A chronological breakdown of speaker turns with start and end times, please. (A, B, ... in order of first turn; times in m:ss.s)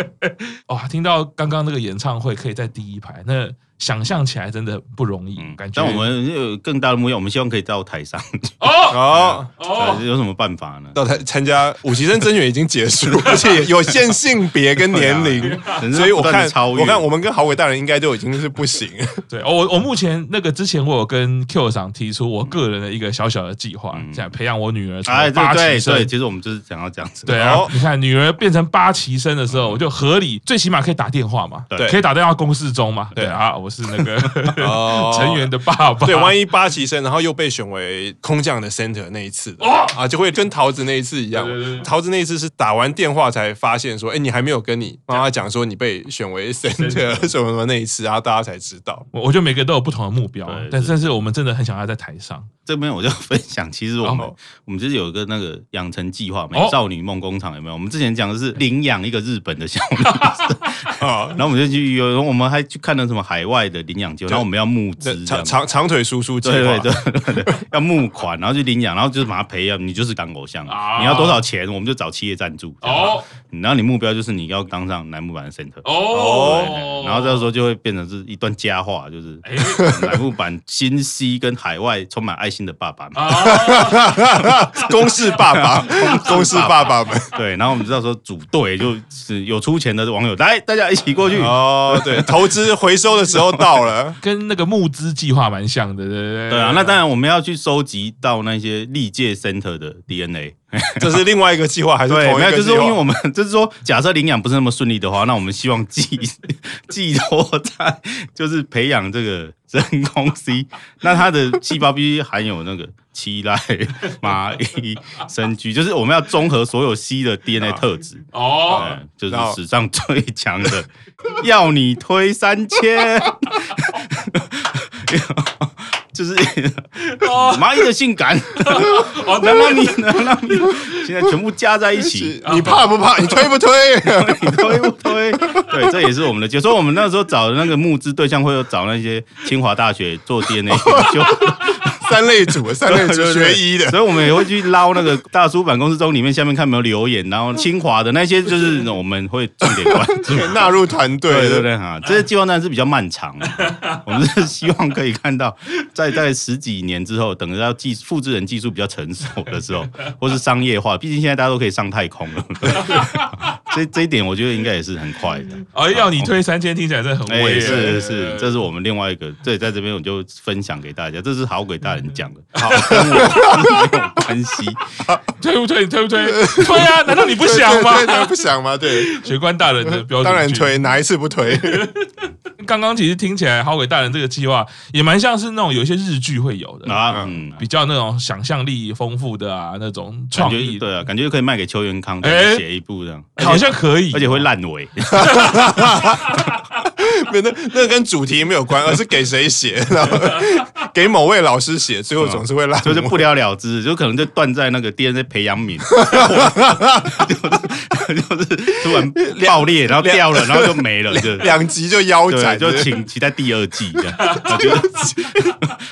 0:00.2-0:06.1 A
0:05.4-0:11.2 B
0:08.6-0:10.0 A
0:08.9-0:09.5 C
0:10.9-0:19.2 C
0:13.3-0:13.6 A
0:14.9-0:17.0 B
0:15.4-0:15.8 A
0:19.3-0:26.1 A
0:23.9-0:24.3 B
0:25.0-0:27.6 B
0:27.3-0:36.4 A
0:27.3-0:27.7 C
0:29.5-0:29.8 B
0:34.0-0:34.3 B
0:34.6-0:35.5 C
0:36.0-0:49.0 C
0:39.6-0:40.0 A
0:41.3-0:41.9 A
0:46.8-0:47.2 A
0:49.1-0:52.5 A
0:50.4-0:51.0 B
0:52.6-1:05.6 B
0:54.1-0:54.3 C
1:00.0-1:00.3 A
1:01.0-1:01.4 C
1:05.0-1:06.9 C
1:06.4-1:23.5 B
1:10.7-1:11.4 A
1:12.8-1:13.3 A
1:15.8-1:17.5 A
1:16.1-1:16.7 C
1:19.4-1:20.0 A
1:23.2-1:24.3 A
1:23.4-1:27.3 C
1:25.8-1:32.4 B
1:31.4-1:34.2 C
1:33.3-1:33.7 B
1:34.2-1:37.0 A
1:36.5-1:41.2 B
1:41.0-1:43.0 C
1:42.1-2:22.0 B
1:58.3-1:58.9 A
1:58.7-1:59.6 C
2:07.0-2:07.9 A
2:08.6-2:11.2 A
2:12.0-2:14.9 C
2:12.4-2:12.9 A
2:15.4-2:15.7 C
2:20.7-2:24.0 C
2:22.8-2:30.8 B
2:29.6-2:31.7 C
2:31.3-2:46.3 B
2:33.6-2:34.0 A
2:42.8-2:43.6 A
2:45.7-2:48.6 A
2:47.3-2:54.8 B
2:47.6-2:48.0 C
2:52.5-2:53.8 C
2:52.8-2:53.5 A
2:55.4-3:00.8 A
2:56.3-2:59.2 C
2:59.8-3:01.9 C
3:01.6-3:02.0 A
3:02.6-3:10.9 A
3:06.8-3:07.6 B
3:10.3-3:16.0 B
3:12.2-3:12.6 A
3:13.4-3:14.5 A
3:15.1-3:16.4 C
3:17.0-3:23.2 C
3:22.2-3:31.5 B
3:25.9-3:27.1 C
3:29.0-3:32.9 C
3:32.3-3:35.7 B
3:34.1-3:35.5 A